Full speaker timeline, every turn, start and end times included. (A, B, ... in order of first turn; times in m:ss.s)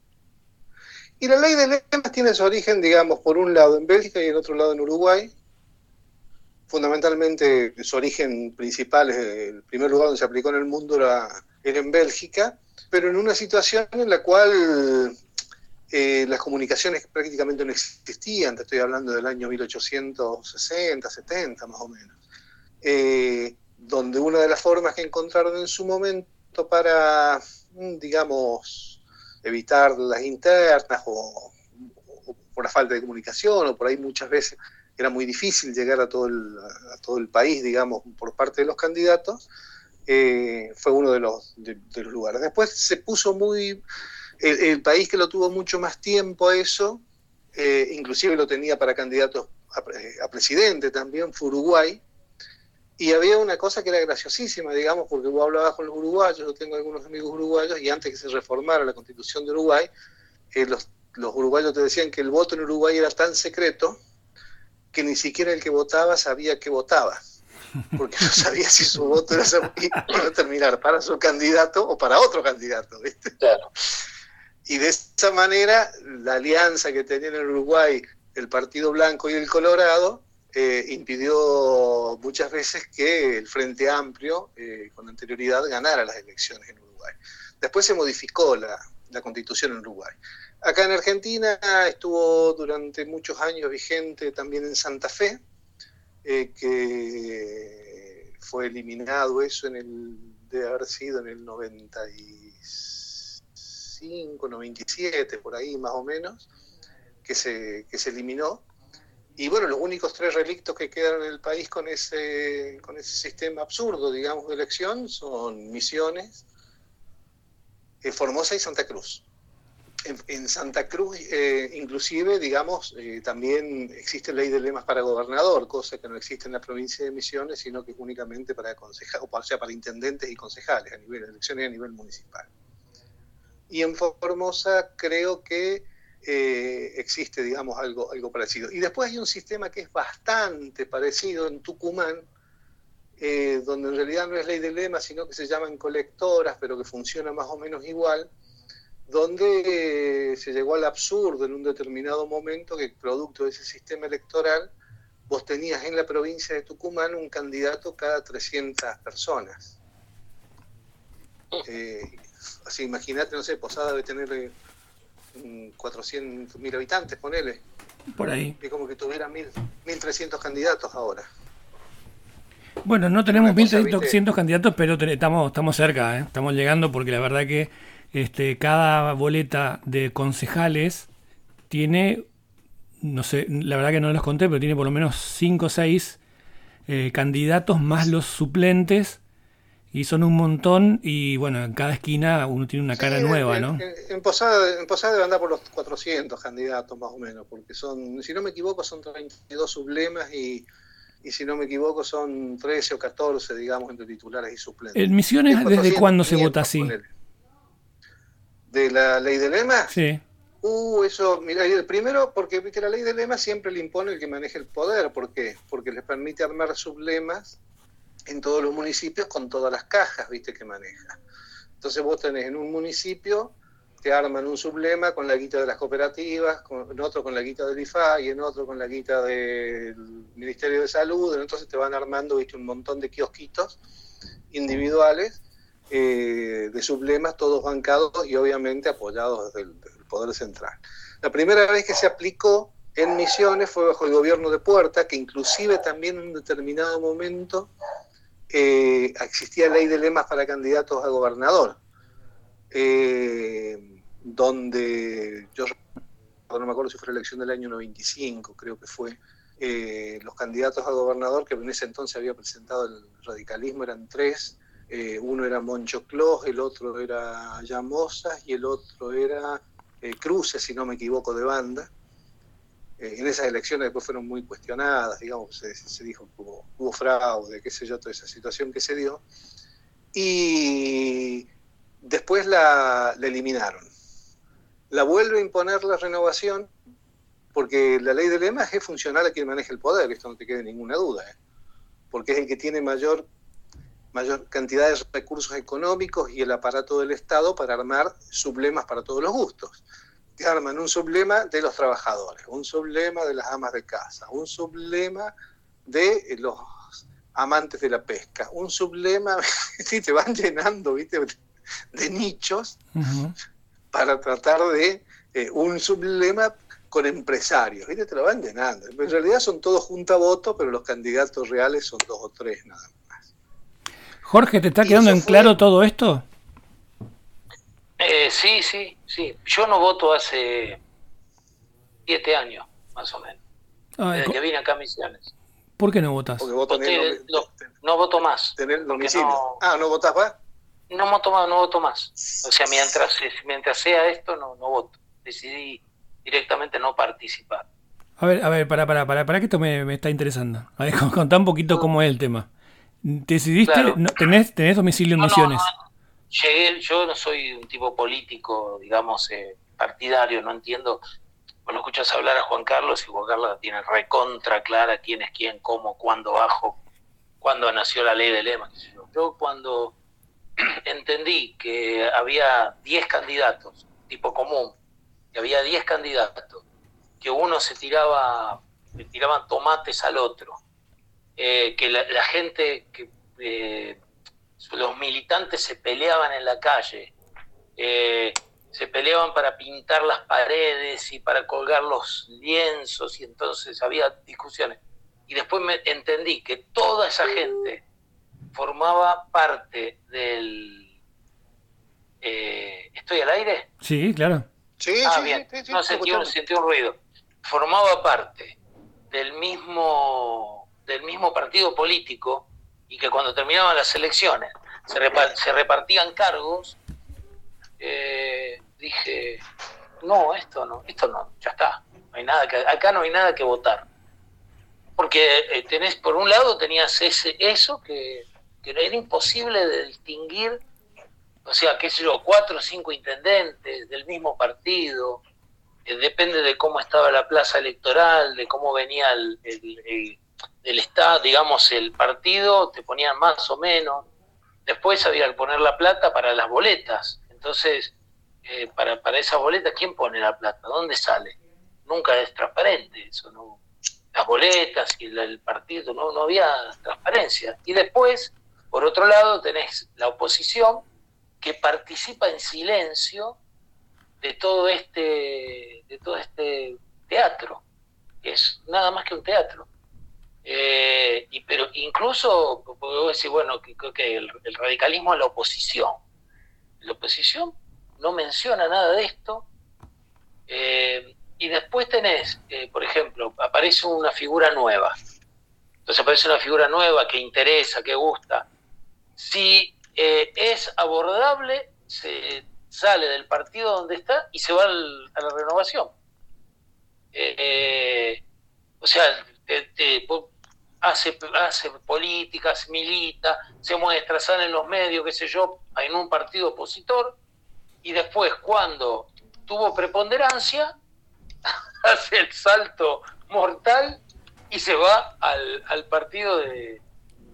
0:01.2-0:05.3 A
0:06.7-0:15.2 A
0:15.9-0:22.2 A
0:22.8-0:39.4 A
0:40.1-0:43.8 A
0:44.4-0:47.0 A
0:47.5-0:52.0 A
0:53.0-0:59.9 A
1:00.5-1:04.0 A
1:04.9-1:07.2 A
1:07.9-1:13.9 A
1:13.4-1:13.7 B
1:14.7-1:35.4 A
1:36.2-1:46.5 A
1:47.2-1:48.6 A
1:49.4-1:56.4 A
1:58.0-1:59.2 A
2:00.0-2:12.5 A
2:13.7-2:22.2 A
2:23.2-2:28.3 A
2:29.1-2:34.7 A
2:35.3-2:39.7 A
2:41.6-2:44.5 A
2:45.3-2:47.6 A
2:48.2-2:48.6 C
2:48.6-2:51.2 A
2:52.8-3:01.1 C
2:53.2-2:54.2 A
3:01.7-3:02.2 C
3:03.0-3:06.2 C
3:06.9-3:09.2 C
3:09.9-3:13.8 C
3:12.9-3:20.7 A
3:21.2-3:27.1 A
3:24.9-3:26.9 C
3:28.7-3:29.9 A
3:29.9-3:30.2 C
3:30.6-3:37.6 A
3:38.3-3:41.2 A
3:41.8-3:53.8 A
3:54.5-3:55.4 A
3:55.9-4:07.7 A
4:08.5-4:11.8 A
4:12.7-4:15.7 A
4:16.5-4:31.9 A
4:33.0-4:39.2 A
4:40.1-4:41.5 A
4:42.0-4:43.9 A
4:44.9-4:46.7 A
4:47.5-4:51.4 A
4:52.1-4:53.3 A
4:54.1-4:59.8 A
5:00.4-5:05.3 A
5:05.8-5:11.4 A
5:11.9-5:12.8 A
5:12.9-5:13.3 C
5:13.9-5:23.2 A
5:24.2-5:26.2 C
5:24.8-5:25.5 A
5:28.0-5:30.8 B
5:32.1-5:33.4 B
5:34.0-5:34.4 C
5:34.1-5:35.3 B
5:35.8-5:36.5 C
5:36.4-5:37.5 A
5:36.7-5:39.6 B
5:38.6-5:40.4 A
5:40.9-5:47.6 B
5:48.2-5:52.5 C
5:53.0-5:55.6 C
5:53.6-5:54.0 B
5:55.2-5:55.7 B
5:56.3-6:01.0 B
6:01.7-6:06.8 B
6:07.4-6:09.9 B
6:10.6-6:14.8 B
6:15.3-6:16.6 B
6:17.2-6:20.6 B
6:21.4-6:24.0 B
6:24.6-6:27.1 B
6:27.8-6:37.8 B
6:38.5-6:40.9 B
6:42.2-6:43.7 B
6:43.8-6:44.4 C
6:44.8-6:46.3 A
6:45.0-6:48.6 B
6:49.1-6:56.8 B
6:57.8-6:59.4 B
7:00.0-7:03.9 B
7:05.0-7:10.6 B
7:11.4-7:15.2 B
7:15.8-7:24.1 B
7:24.6-7:27.9 B
7:28.4-7:33.6 B
7:34.1-7:40.8 B
7:41.4-7:43.4 B
7:44.2-7:47.6 B
7:48.2-7:49.7 B
7:50.4-7:56.0 B
7:56.8-7:59.4 B
8:00.5-8:04.9 B
8:05.8-8:08.5 B
8:09.2-8:15.9 B
8:17.1-8:18.2 B
8:18.8-8:20.3 B
8:20.8-8:27.2 B
8:27.8-8:30.8 B
8:31.4-8:36.8 B